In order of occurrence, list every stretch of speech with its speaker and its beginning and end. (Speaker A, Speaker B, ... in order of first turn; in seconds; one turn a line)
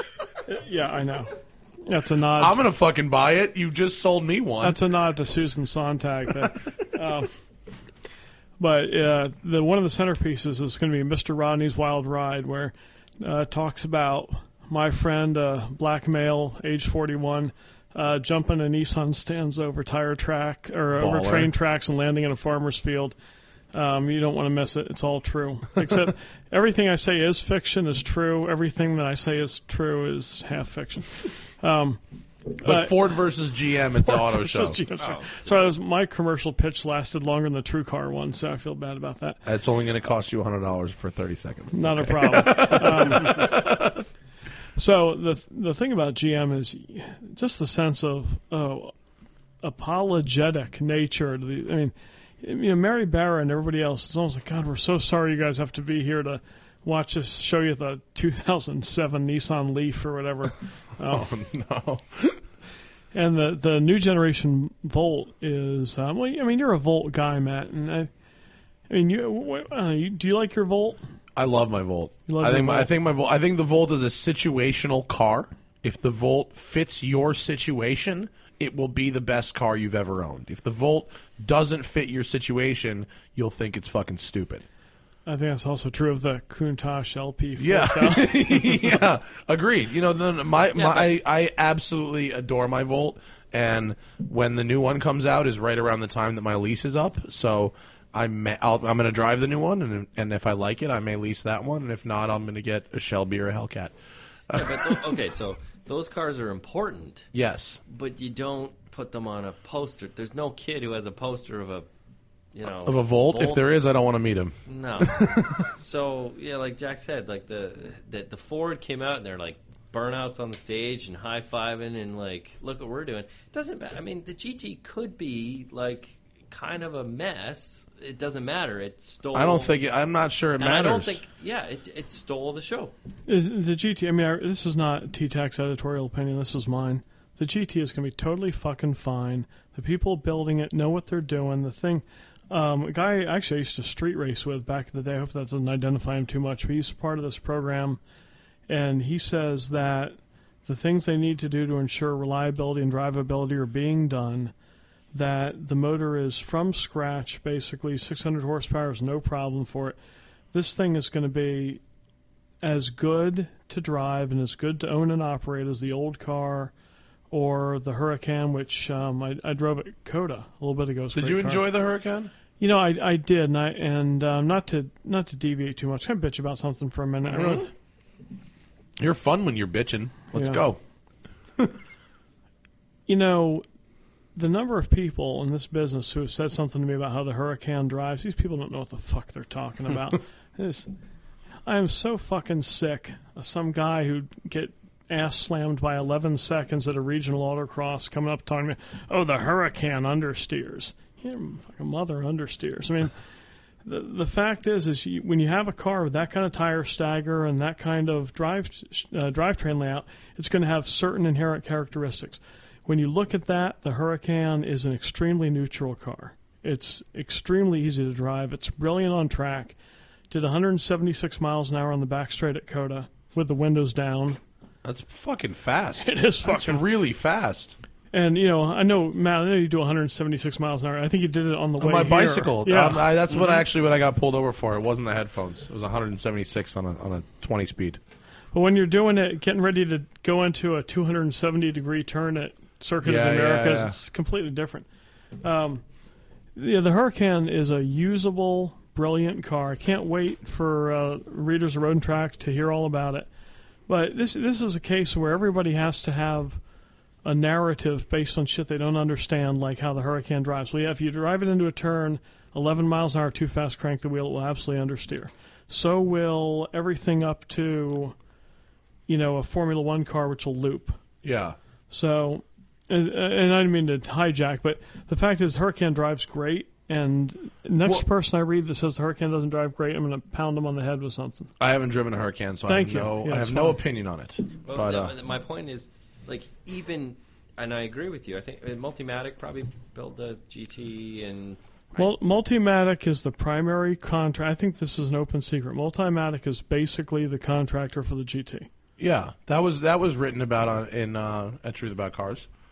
Speaker A: 0.5-1.3
Speaker A: 1.9-2.6
Speaker B: 2.4-4.8
Speaker A: 4.6-7.3
Speaker A: 8.6-23.2
Speaker B: 21.0-21.5
Speaker A: 23.7-33.0
Speaker B: 32.6-34.8
Speaker A: 33.9-39.4
Speaker C: 35.0-35.6
Speaker B: 39.5-44.0
Speaker A: 41.7-43.5
Speaker A: 44.8-48.9
Speaker A: 49.6-61.3
Speaker B: 61.0-62.4
Speaker A: 63.1-68.1
Speaker A: 68.9-71.0
Speaker B: 71.3-84.6
Speaker A: 72.3-72.9
Speaker A: 85.3-89.0
Speaker B: 87.6-103.9
Speaker C: 90.8-91.1
Speaker B: 104.5-105.1
Speaker C: 104.5-107.3
Speaker B: 107.3-107.8
Speaker C: 107.9-111.9
Speaker C: 112.5-113.7
Speaker B: 112.8-115.7
Speaker C: 114.7-129.8
Speaker B: 129.3-131.2
Speaker C: 130.6-132.9
Speaker A: 133.3-148.0
Speaker A: 148.7-154.5
Speaker A: 155.1-160.0
Speaker A: 160.5-161.8
Speaker A: 162.6-166.7
Speaker A: 167.3-171.7
Speaker B: 171.2-172.3
Speaker A: 172.6-177.7
Speaker B: 177.2-177.7
Speaker B: 179.0-180.8
Speaker A: 180.3-180.6
Speaker A: 183.1-183.7
Speaker A: 184.3-190.9
Speaker A: 191.7-203.1
Speaker A: 203.8-219.8
Speaker A: 220.3-224.4
Speaker B: 224.8-227.8
Speaker A: 226.0-226.8
Speaker A: 228.1-233.3
Speaker B: 231.8-238.0
Speaker A: 238.5-244.9
Speaker B: 243.0-244.0
Speaker A: 245.4-245.8
Speaker A: 246.6-253.3
Speaker A: 253.9-256.6
Speaker A: 257.2-268.1
Speaker A: 269.1-271.0
Speaker B: 271.2-271.6
Speaker A: 271.9-281.5
Speaker B: 281.6-285.1
Speaker A: 282.6-283.8
Speaker C: 284.6-292.1
Speaker A: 291.9-298.7
Speaker B: 299.0-302.5